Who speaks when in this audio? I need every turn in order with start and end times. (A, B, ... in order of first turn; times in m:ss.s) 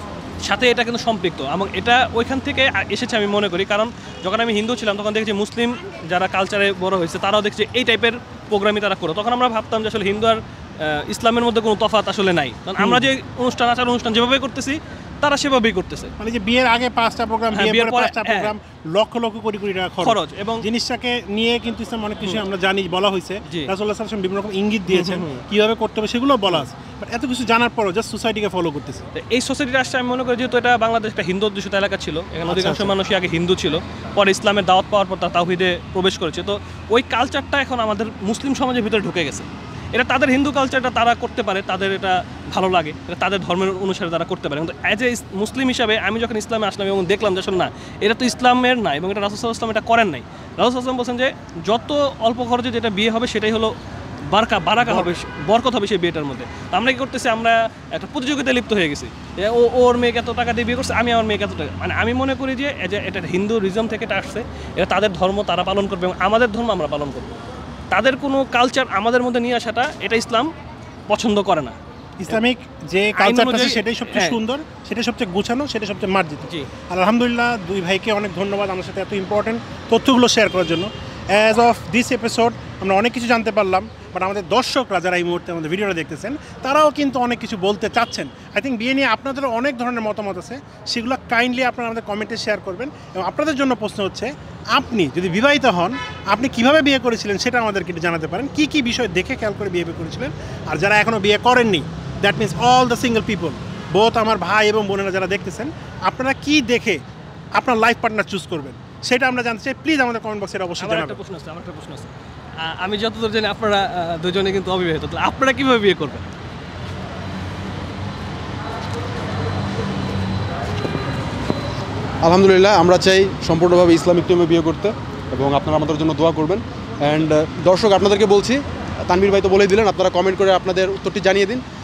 0:00.4-0:16.1 A
0:16.2-0:29.0 B
0:17.6-0:18.5 A
0:20.0-0:20.6 A
0:23.5-0:23.7 A
0:24.9-0:25.4 A
0:29.1-0:53.7 A
0:32.5-0:32.9 B
0:54.3-1:07.3 A
1:07.9-1:10.5 A
1:11.1-1:11.8 A
1:12.2-1:47.0 B
1:13.1-1:14.4 A
1:47.6-1:51.2 B
1:50.8-1:52.1 A
1:52.6-1:56.3 A
2:02.2-2:11.6 C